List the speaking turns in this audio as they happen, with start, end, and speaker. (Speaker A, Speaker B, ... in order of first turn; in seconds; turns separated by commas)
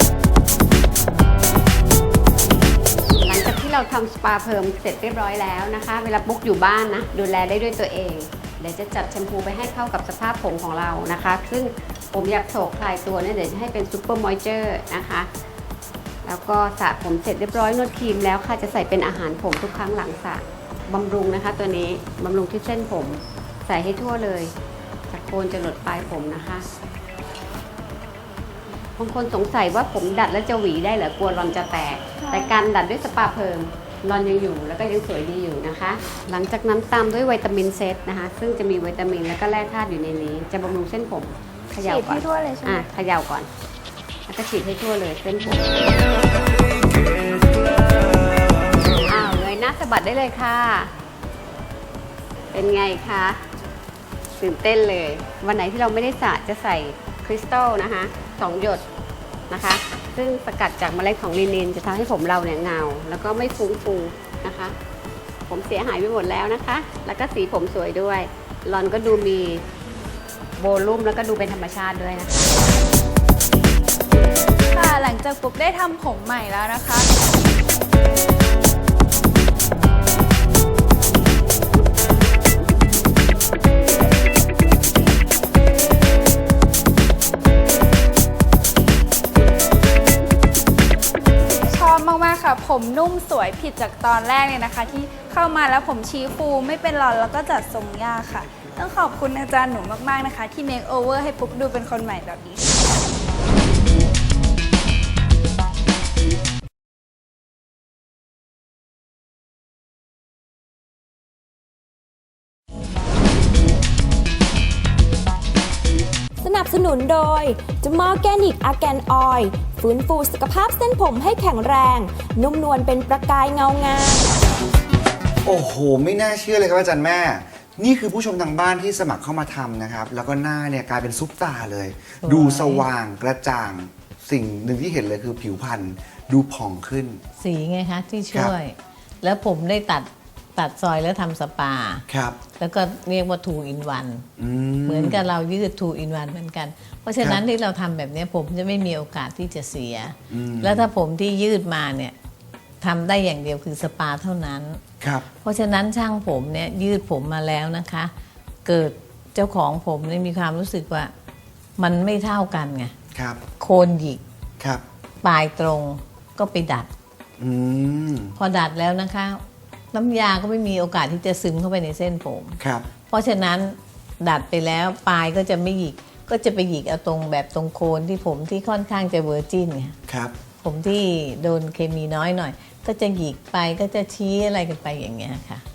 Speaker A: 3.2-15.3, Speaker A: 16.2-24.5, Speaker A: 25.1-26.6, Speaker A: 29.0-43.5, Speaker B: 32.2-32.6, Speaker B: 41.8-42.9, Speaker A: 44.3-45.7, Speaker A: 49.0-50.9, Speaker A: 52.5-53.4, Speaker A: 54.4-58.8, Speaker A: 59.5-64.7, Speaker A: 65.5-69.6, Speaker A: 70.6-72.5, Speaker B: 74.7-77.1, Speaker B: 91.7-102.7, Speaker C: 116.4-124.2, Speaker D: 125.4-137.2, Speaker E: 132.2-132.8, Speaker E: 137.4-144.3, Speaker D: 142.1-142.4, Speaker D: 144.4-145.2, Speaker E: 144.8-152.2, Speaker D: 150.3-150.9, Speaker E: 152.8-154.8, Speaker D: 155.0-155.2, Speaker E: 155.4-158.1, Speaker E: 158.6-161.1, Speaker E: 161.8-162.9, Speaker D: 163.1-163.4, Speaker E: 163.6-164.2, Speaker E: 165.2-166.9, Speaker D: 167.4-168.4, Speaker E: 168.3-172.6, Speaker D: 172.6-172.9, Speaker E: 173.1-179.9, Speaker D: 180.1-180.3, Speaker E: 180.6-185.6